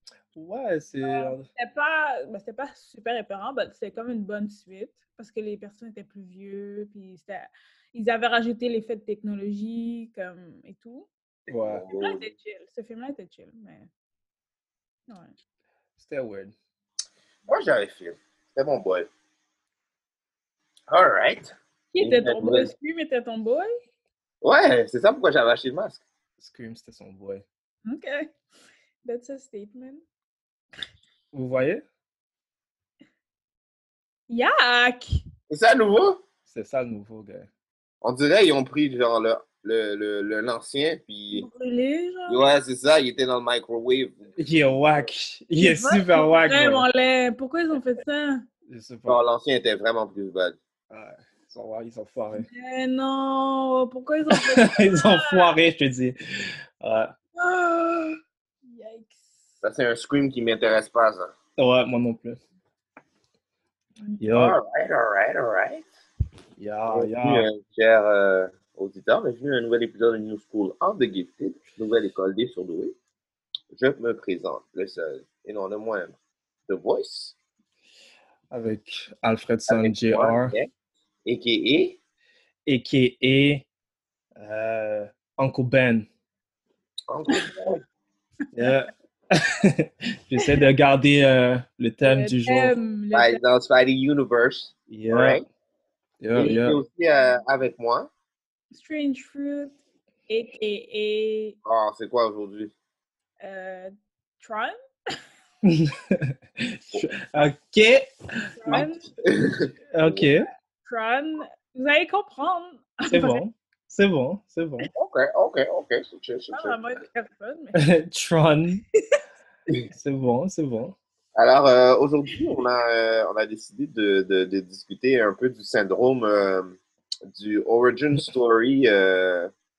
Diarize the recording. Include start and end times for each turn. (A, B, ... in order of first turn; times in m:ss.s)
0:00.4-0:01.5 A
0:01.0-0:11.1 B
0:11.5-0:11.8 A
0:11.5-0:12.3 C
0:12.0-0:13.9 B
0:15.1-0:15.4 B
0:16.0-0:16.5 A
0:17.5-0:19.1 C
0:20.9-0:22.7 C
0:21.9-0:23.7 B
0:24.4-0:26.0 C
0:26.4-0:27.4 A
0:27.9-0:28.3 B
0:29.0-0:30.0 B
0:31.3-0:31.8 A
0:34.3-0:35.2 B
0:35.5-0:36.2 C
0:36.5-0:37.5 A
0:38.0-0:41.5 C
0:41.3-0:42.5 B
0:42.3-0:44.3 C
0:44.4-0:46.8 A
0:45.6-0:48.4 B
0:48.7-0:49.2 A
0:49.1-0:50.6 C
0:50.9-0:52.5 A
0:52.4-0:55.6 B
0:54.3-0:57.1 A
0:57.4-0:59.6 B
0:59.6-1:01.3 C
1:01.6-1:02.4 A
1:04.2-1:04.6 A
1:04.4-1:05.9 C
1:06.6-1:07.5 A
1:06.9-1:12.9 C
1:13.7-1:16.1 C
1:16.7-1:17.3 C
1:18.5-1:20.5 A
1:19.7-1:20.7 C
1:21.3-1:22.0 C
1:22.7-1:23.6 A
1:24.4-1:26.1 A
1:27.1-1:27.8 C
1:28.5-1:32.7 A
1:30.4-1:30.7 B
1:32.0-1:33.4 B
1:33.1-1:35.4 C
1:34.9-1:35.4 A
1:36.2-1:36.8 A
1:36.4-1:38.1 C
1:38.7-1:39.7 B
1:40.3-1:41.6 B
1:41.6-1:42.7 C
1:43.4-1:45.2 B
1:45.6-1:48.8 A
1:48.5-1:49.1 B
1:49.2-1:50.2 C
1:49.9-1:50.5 A
1:50.9-1:53.4 B
1:53.1-1:54.9 A
1:54.9-1:56.8 C
1:56.5-1:57.9 B
1:57.8-1:58.8 A
1:59.9-2:01.0 A
2:01.4-2:06.8 C
2:07.3-2:09.5 C